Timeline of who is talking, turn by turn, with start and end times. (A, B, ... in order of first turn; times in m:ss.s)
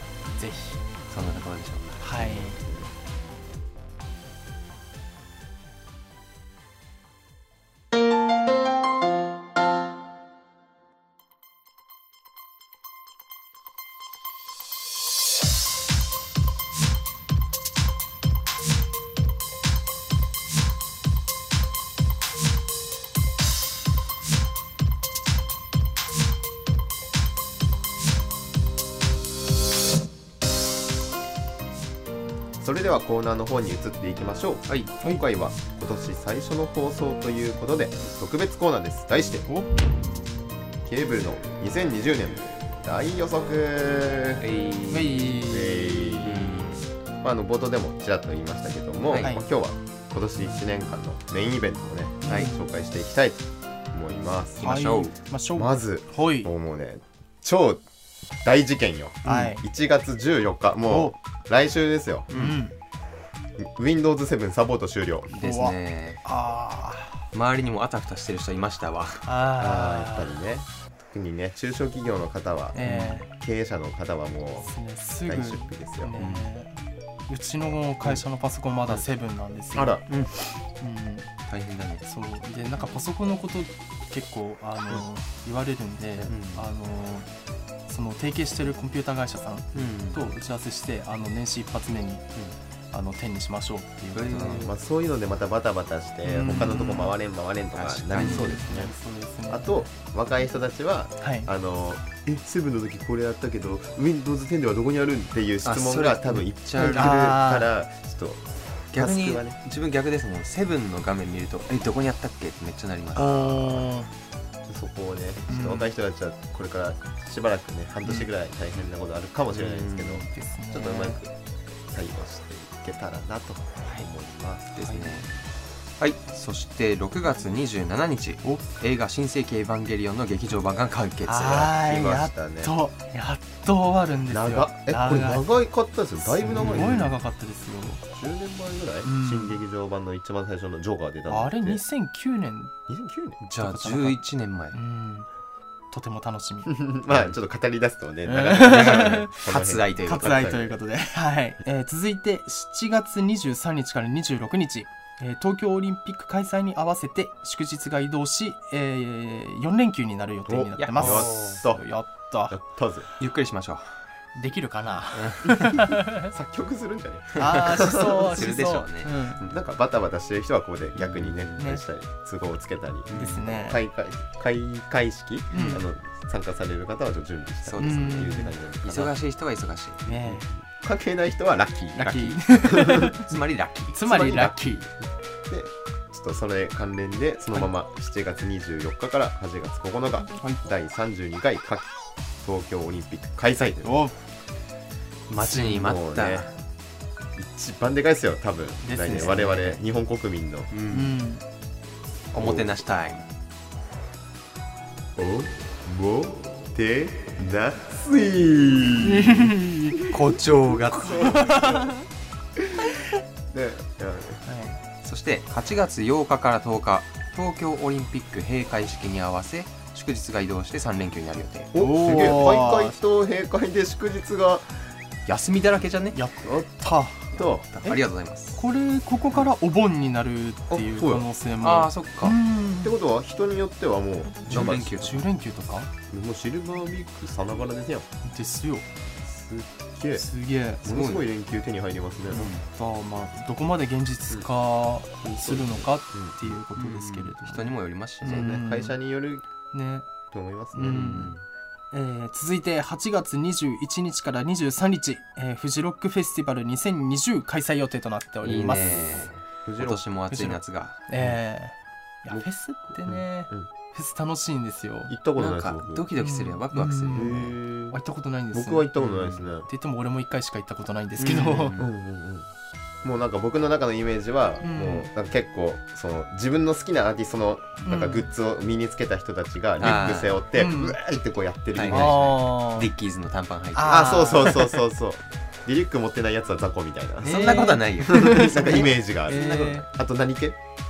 0:00.4-0:00.8 A
0:01.1-0:02.3 B
0:02.0-0:02.6 A
0:02.2-0:02.9 C
0:32.6-0:39.5 C
0:34.7-0:34.9 B
0:40.8-0:44.4 C
0:44.4-0:45.4 B
0:44.9-0:46.5 A
0:45.4-0:46.7 C
0:46.2-0:46.8 B
0:47.2-0:54.8 C
0:49.0-0:49.4 B
0:49.2-0:49.4 A
0:52.2-0:52.7 A
0:52.2-0:52.5 B
0:54.6-0:55.1 B
0:54.6-0:56.5 A
0:55.5-0:57.8 C
0:58.4-1:02.3 C
0:59.2-0:59.6 A
1:00.9-1:01.1 A
1:02.3-1:02.6 B
1:02.3-1:02.7 A
1:03.6-1:05.3 C
1:05.3-1:06.2 B
1:05.4-1:07.2 A
1:07.3-1:09.2 B
1:09.2-1:10.3 A
1:09.6-1:12.8 C
1:12.7-1:13.3 A
1:12.8-1:13.2 B
1:13.3-1:14.7 C
1:14.6-1:16.8 A
1:15.2-1:16.1 C
1:16.2-1:16.5 B
1:17.3-1:20.0 A
1:19.7-1:20.0 C
1:20.1-1:20.4 B
1:20.8-1:21.3 A
1:21.5-1:22.0 B
1:22.0-1:27.3 A
1:26.2-1:26.7 B
1:27.9-1:32.2 A
1:29.7-1:30.2 B
1:32.9-1:34.6 A
1:34.1-1:34.7 B
1:34.5-1:38.9 C
1:36.2-1:37.1 A
1:36.5-1:36.8 B
1:37.7-1:38.6 B
1:38.2-1:39.9 A
1:39.5-1:48.4 C
1:41.2-1:41.5 A
1:45.6-1:47.2 B
1:46.9-1:47.7 A
1:48.9-1:49.6 C
1:48.9-1:53.9 B
1:53.1-1:54.1 A
1:54.6-2:01.3 C
1:55.5-1:55.9 A
1:59.5-2:00.3 B
2:00.3-2:01.2 A
2:01.9-2:04.8 C
2:04.8-2:05.3 B
2:04.8-2:05.3 A
2:06.0-2:11.7 B
2:11.2-2:15.4 A
2:11.7-2:12.7 C
2:14.3-2:17.0 C
2:16.2-2:18.0 A
2:16.5-2:17.1 B
2:18.1-2:21.8 C
2:19.0-2:19.6 A
2:21.3-2:22.7 A
2:22.9-2:23.4 C
2:23.4-2:24.8 B
2:23.6-2:25.3 A
2:25.9-2:26.7 A
2:26.6-2:30.7 C
2:28.2-2:29.3 A
2:28.5-2:30.7 B
2:30.0-2:42.6 A
2:40.5-2:41.8 C
2:40.8-2:41.6 B
2:42.5-2:43.1 C
2:43.2-2:44.0 B
2:44.4-2:46.3 A
2:45.1-2:45.8 B
2:46.3-2:48.4 C
2:47.4-2:49.4 A
2:47.4-2:49.6 B
2:49.4-2:59.1 C
2:51.0-2:51.6 B
2:51.6-2:51.8 A
2:53.1-2:53.4 B
2:53.1-2:53.8 A
2:55.5-2:55.8 A
2:55.5-2:55.8 B
2:57.6-3:00.2 B
2:57.8-2:58.5 A
3:00.0-3:00.5 A
3:00.3-3:03.1 C
3:02.0-3:03.4 A
3:02.9-3:03.9 B
3:03.9-3:04.8 A
3:04.0-3:13.9 C
3:13.8-3:14.2 A
3:15.3-3:16.5 B
3:15.4-3:15.8 A
3:15.6-3:16.5 C
3:17.3-3:20.7 C
3:18.8-3:19.8 A
3:19.1-3:19.7 B
3:20.7-3:21.1 B
3:20.9-3:21.4 A
3:22.3-3:23.3 B
3:22.3-3:22.8 C
3:25.2-3:30.1 C
3:29.0-3:32.0 A
3:30.1-3:31.3 B
3:30.9-3:32.0 C
3:32.6-3:32.8 C
3:33.5-3:34.4 C
3:34.4-3:34.8 A
3:35.0-3:42.2 B
3:41.7-3:43.0 A
3:41.7-3:44.8 C
3:45.3-3:46.2 B
3:46.1-3:48.0 A
3:47.3-3:48.6 B
3:47.4-3:47.6 C
3:48.6-3:52.9 A
3:50.7-3:51.2 C
3:51.6-3:52.4 B
3:52.8-3:54.9 C
3:54.5-3:55.3 B
3:54.5-3:55.9 A
3:56.1-3:58.1 C
3:58.2-3:58.8 A
3:59.2-4:00.3 C
4:00.1-4:00.9 A
4:00.8-4:02.5 C
4:00.8-4:01.2 B
4:02.3-4:02.6 B
4:02.4-4:07.7 A
4:05.4-4:05.9 B
4:06.1-4:06.6 C
4:06.7-4:08.6 B
4:08.2-4:09.0 A
4:08.2-4:09.4 C
4:09.7-4:10.1 A
4:10.3-4:11.2 C
4:10.7-4:11.3 A
4:10.9-4:11.4 B
4:11.9-4:19.2 A
4:18.4-4:21.0 B
4:18.5-4:20.0 C
4:20.3-4:25.1 A
4:23.0-4:23.7 C
4:25.1-4:26.1 C
4:25.4-4:27.5 B
4:26.2-4:28.9 A
4:27.1-4:28.0 C
4:28.5-4:29.7 C
4:29.0-4:29.5 B
4:29.6-4:31.8 A
4:31.2-4:31.9 B
4:31.8-4:32.5 C
4:33.0-4:42.3 C
4:34.6-4:35.1 A
4:37.8-4:38.3 A
4:39.8-4:40.4 B
4:40.5-4:41.0 A
4:41.7-4:44.7 B
4:41.9-4:42.9 A
4:43.7-4:44.7 A
4:43.9-4:50.6 C
4:47.2-4:49.8 B
4:47.2-4:49.8 A